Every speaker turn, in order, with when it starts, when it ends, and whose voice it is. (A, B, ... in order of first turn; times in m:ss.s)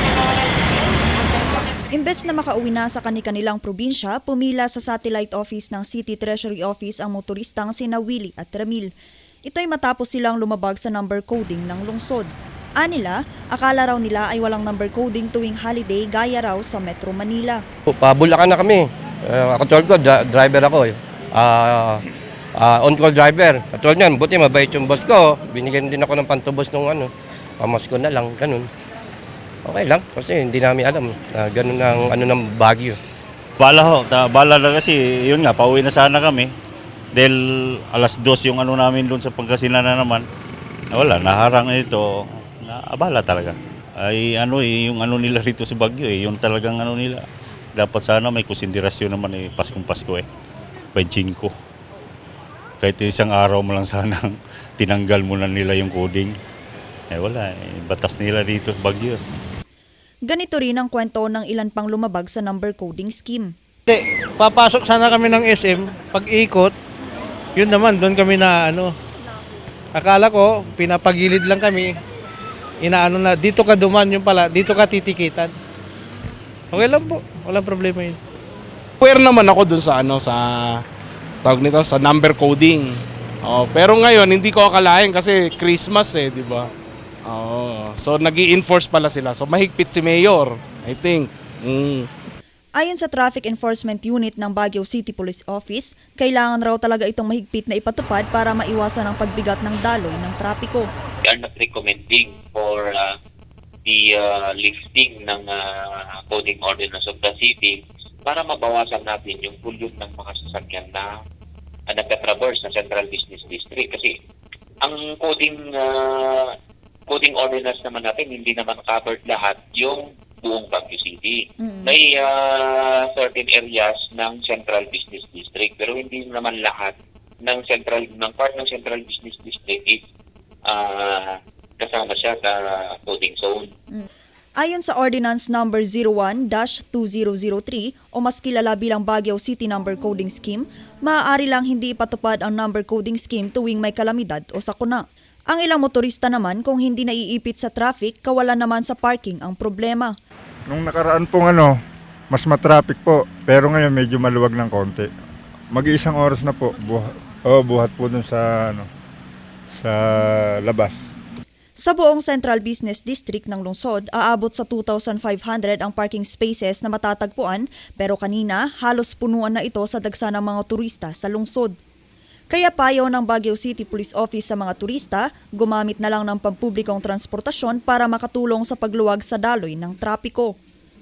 0:01.9-0:08.9 A
0:09.5-0:17.6 A
0:17.9-0:22.0 B
0:22.6-0:28.7 B
0:29.7-0:33.0 B
0:33.6-0:36.5 C
0:37.9-0:40.3 C
0:40.9-0:47.2 C
0:47.8-0:50.3 C
0:51.0-0:51.5 C
0:52.8-0:56.4 C
0:57.1-0:59.2 C
1:00.3-1:03.5 A
1:03.9-1:06.7 D
1:07.6-1:08.9 D
1:10.0-1:11.9 D
1:12.8-1:15.5 D
1:16.7-1:18.2 D
1:19.0-1:20.8 E
1:21.4-1:26.7 E
1:27.3-1:32.1 E
1:32.8-1:40.9 A
1:41.2-1:43.1 F
1:43.8-1:51.1 F
1:51.9-1:54.1 F
1:54.8-1:56.5 F
1:57.1-2:07.0 F
2:01.6-2:01.9 A
2:07.5-2:10.0 F
2:10.7-2:13.7 F
2:14.6-2:30.1 A
2:30.7-2:31.8 G
2:32.3-2:35.1 G
2:35.7-2:38.9 G
2:39.8-2:41.0 G
2:41.8-2:51.8 A
2:52.5-3:00.5 A